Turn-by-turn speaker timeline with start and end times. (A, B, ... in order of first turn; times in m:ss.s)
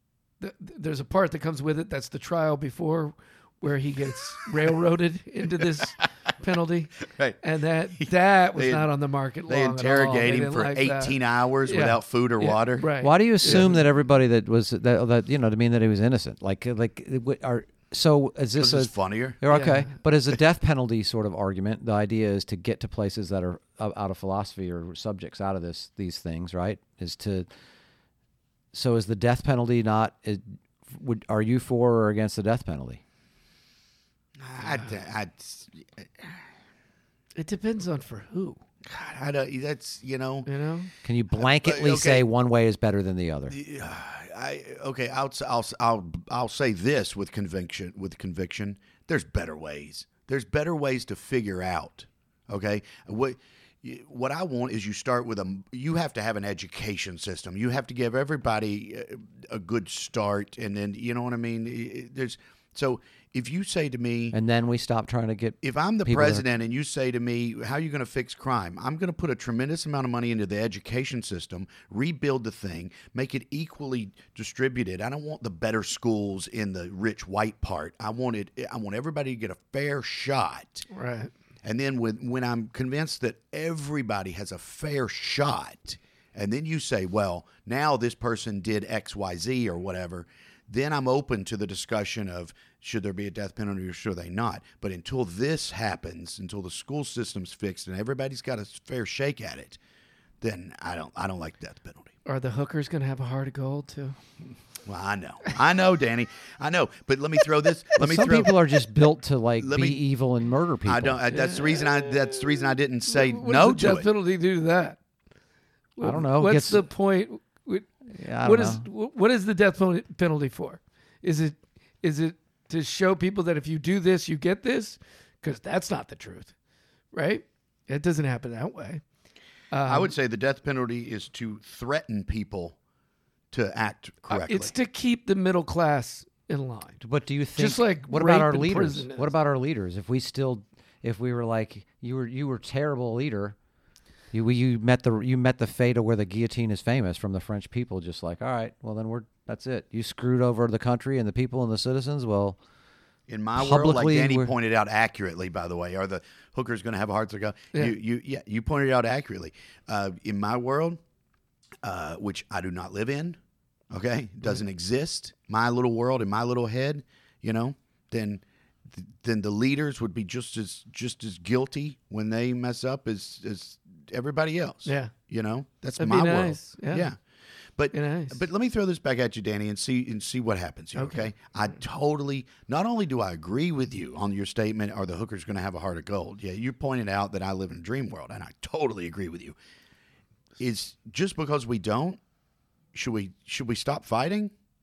0:00.4-0:13.8 A
0:07.1-0:07.4 B
0:08.0-0:08.9 B
0:09.5-0:12.9 B
0:13.0-0:27.5 C
0:13.4-0:13.7 B
0:18.6-0:19.4 B
0:19.5-0:19.9 A
0:28.7-0:33.0 C
0:34.4-0:36.4 B
0:37.4-0:38.6 A
0:38.9-0:40.5 B
0:40.5-0:40.9 A
0:41.0-0:43.5 C
0:41.3-0:42.3 B
0:43.5-1:04.4 B
1:04.3-1:06.5 C
1:05.6-1:20.9 B
1:20.9-1:21.3 A
1:21.6-1:39.8 B
1:40.4-1:42.1 B
1:42.3-1:44.2 A
1:44.8-1:48.5 B
1:48.0-1:51.2 C
1:49.6-1:50.0 B
1:50.9-1:54.1 B
1:51.3-1:55.0 A
1:56.0-2:06.5 A
1:56.0-1:56.8 C
1:58.1-1:58.8 C
2:07.1-2:09.0 A
2:09.7-2:10.1 A
2:09.9-2:12.8 B
2:13.5-2:14.7 B
2:14.3-2:17.0 A
2:17.0-2:23.6 C
2:17.6-2:19.3 A
2:24.3-2:32.6 C
2:33.3-2:41.0 B
2:33.6-2:34.5 C
2:41.8-2:43.4 B
2:43.9-2:57.2 B
2:54.9-2:55.1 A
2:56.0-2:57.1 A
2:57.8-3:09.6 B
2:57.9-2:58.4 A
3:01.0-3:01.3 A
3:10.6-3:12.2 B
3:12.9-3:14.5 B